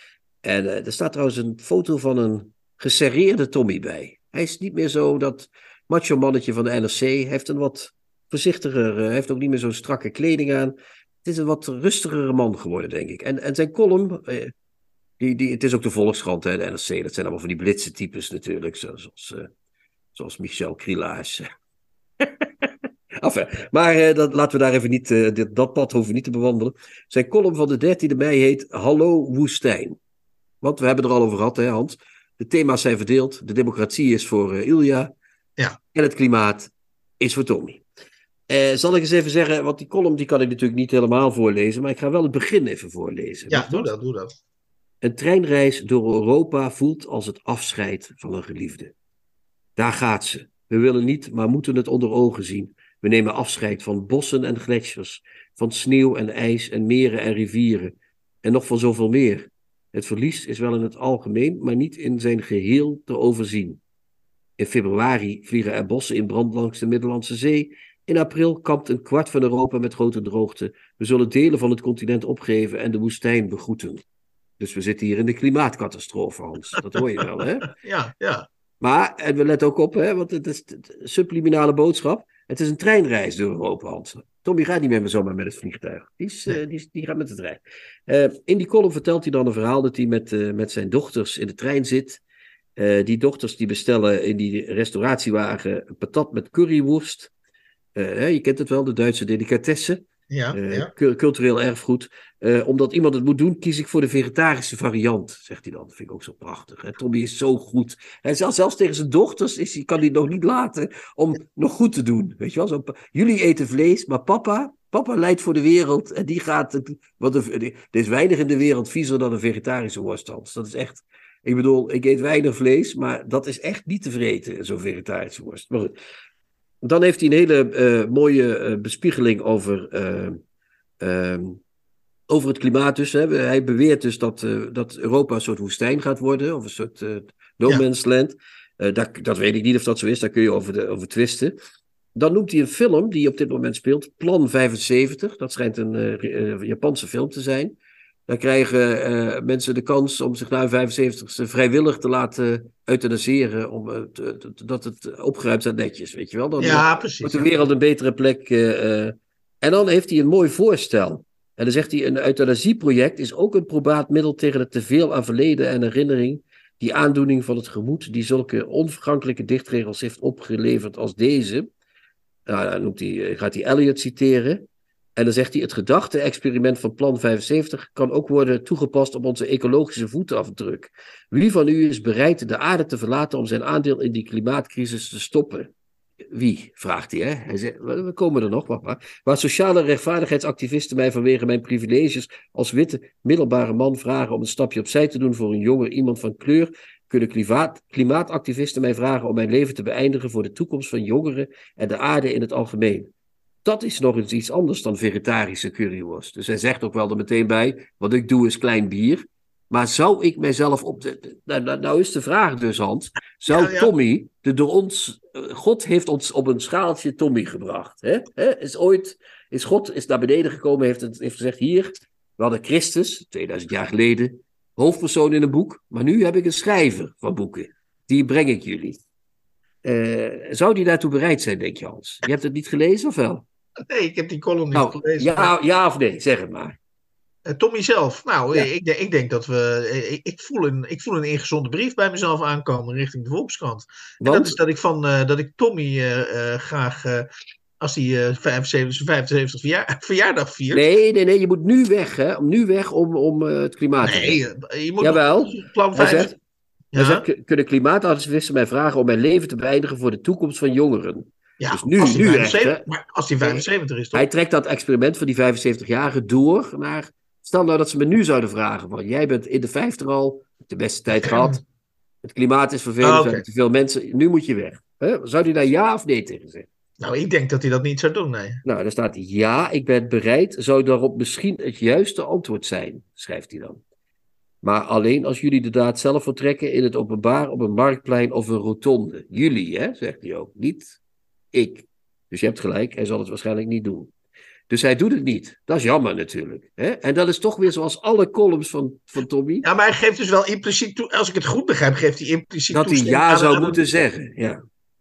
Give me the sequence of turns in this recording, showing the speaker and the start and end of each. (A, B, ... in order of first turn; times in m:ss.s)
0:00.4-0:14.5 A
0:15.2-0:19.5 A
0:20.1-0:21.5 A
0:22.2-0:30.0 A
0:30.6-0:35.1 A
0:35.9-0:37.8 A
0:38.5-0:43.9 A
0:43.5-0:44.4 B
0:45.0-0:48.9 A
0:49.8-1:03.8 A
1:04.6-1:14.0 A
1:14.6-1:17.7 A
1:17.8-1:18.5 B
1:18.8-1:32.2 A
1:32.8-1:37.3 A
1:38.0-2:05.9 A
1:40.3-1:40.9 B
2:06.8-2:10.4 A
2:11.0-2:11.6 A
2:12.3-2:21.6 A
2:22.1-2:27.7 A
2:28.3-2:51.7 A
2:36.6-2:37.6 B
2:52.5-2:54.6 A
2:55.2-3:05.7 A
3:06.3-3:23.1 A
3:23.6-3:49.0 A
3:33.5-3:33.9 B
3:49.8-3:53.4 A
3:53.9-3:55.5 B
3:54.7-3:56.8 A
3:57.5-4:07.3 B
4:04.2-4:04.6 A
4:07.8-4:10.8 B
4:10.7-4:14.4 A
4:14.0-4:16.3 B
4:15.0-4:16.4 A
4:16.9-4:17.2 B
4:17.0-4:22.8 A
4:21.6-4:24.3 B
4:23.4-4:31.6 A
4:31.2-4:31.6 B
4:32.2-4:36.7 A
4:33.0-4:33.4 B
4:37.0-4:38.6 B
4:38.6-4:43.8 A
4:44.6-4:51.0 A
4:51.5-4:54.1 A
4:54.7-4:59.6 A
4:59.6-5:03.9 B
5:02.7-5:04.6 A